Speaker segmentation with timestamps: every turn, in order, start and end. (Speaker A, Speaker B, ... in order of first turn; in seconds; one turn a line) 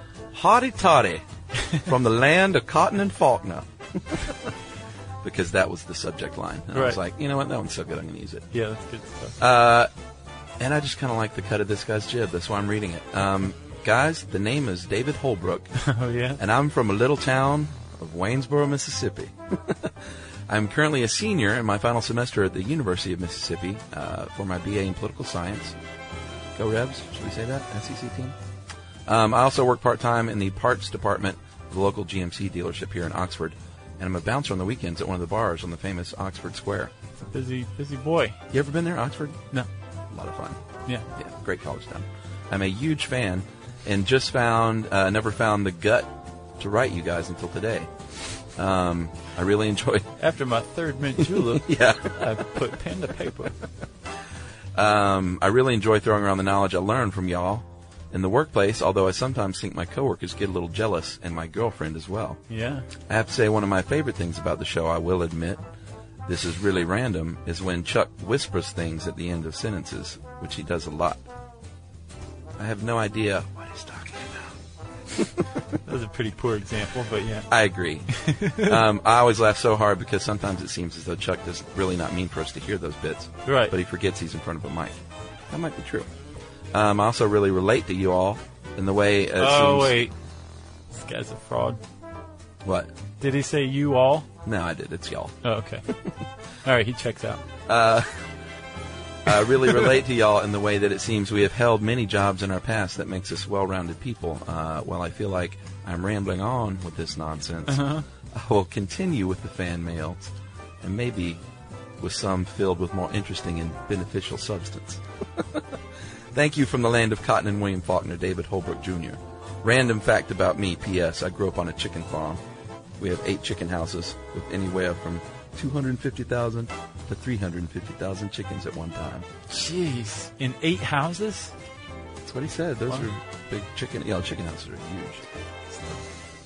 Speaker A: 0.3-1.2
Speaker A: 1.8-4.5
Speaker A: 5.2-8.5
Speaker B: 6.7-7.0
Speaker B: 8.5-9.4
Speaker A: 9.4-9.9
Speaker A: 10.6-15.7
Speaker B: 15.8-16.4
Speaker A: 16.4-25.8
Speaker A: 26.6-28.4
Speaker A: 29.1-36.9
Speaker B: 37.2-38.4
Speaker A: 38.5-39.4
Speaker A: 40.1-40.6
Speaker A: 41.1-47.9
Speaker A: 48.6-50.1
Speaker B: 50.2-53.6
Speaker A: 51.2-52.4
Speaker A: 54.8-62.4
Speaker B: 62.5-62.9
Speaker A: 63.1-65.6
Speaker A: 66.3-71.2
Speaker A: 72.6-74.6
Speaker A: 75.1-75.5
Speaker B: 75.8-77.5
Speaker A: 77.5-86.1
Speaker B: 78.1-78.8
Speaker B: 83.5-83.7
Speaker A: 86.7-90.0
Speaker B: 89.4-90.1
Speaker B: 90.9-91.8
Speaker A: 92.6-92.9
Speaker B: 93.2-94.3
Speaker A: 94.4-95.3
Speaker B: 95.4-96.0
Speaker B: 96.6-97.4
Speaker A: 97.7-98.3
Speaker A: 99.3-111.4
Speaker B: 107.7-108.1
Speaker A: 112.0-115.8
Speaker A: 116.3-122.4
Speaker A: 123.0-129.3
Speaker B: 129.5-131.5
Speaker A: 132.2-135.3